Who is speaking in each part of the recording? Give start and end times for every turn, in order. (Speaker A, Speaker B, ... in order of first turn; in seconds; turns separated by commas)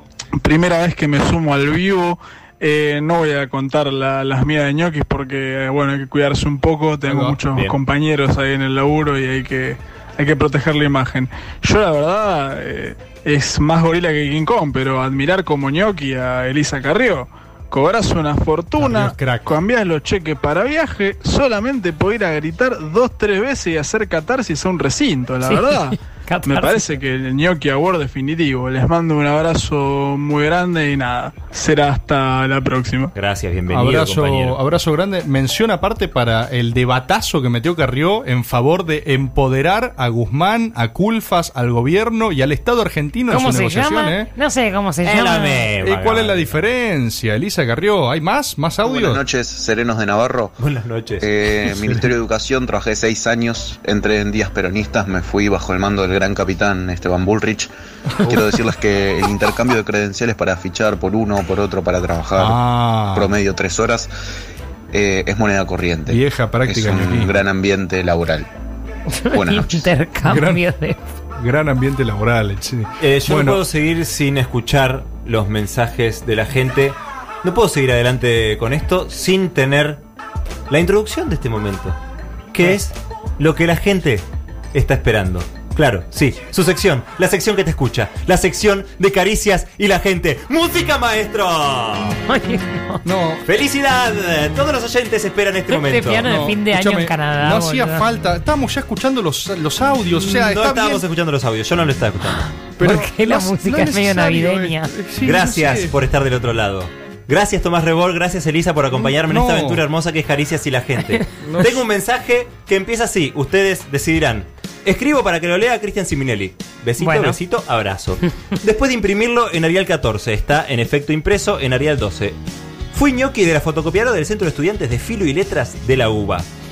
Speaker A: 0.4-33.1, Speaker B: 7.1-7.6, Speaker B: 18.8-19.5, Speaker C: 25.4-26.9, Speaker D: 33.1-34.6, Speaker B: 33.7-44.3, Speaker C: 43.3-45.7, Speaker D: 45.0-46.6, Speaker B: 45.8-49.2, Speaker E: 48.8-50.5, Speaker D: 50.6-51.2, Speaker E: 51.2-57.7, Speaker E: 58.2-62.6, Speaker B: 62.4-63.3, Speaker E: 63.1-64.1, Speaker E: 64.9-68.5, Speaker B: 66.1-67.3, Speaker C: 69.1-71.0, Speaker E: 69.3-69.9, Speaker B: 70.2-70.6, Speaker B: 71.4-73.6, Speaker D: 73.0-80.0, Speaker D: 80.7-82.0, Speaker D: 82.5-92.2, Speaker C: 92.3-93.0, Speaker B: 93.0-93.4, Speaker D: 93.5-96.4, Speaker C: 95.7-98.0, Speaker B: 96.2-101.0, Speaker D: 100.3-102.5, Speaker B: 102.8-105.9, Speaker C: 102.8-104.9, Speaker D: 105.2-122.4, Speaker B: 109.0-109.8, Speaker B: 111.4-111.8, Speaker C: 117.0-117.4, Speaker D: 122.9-126.5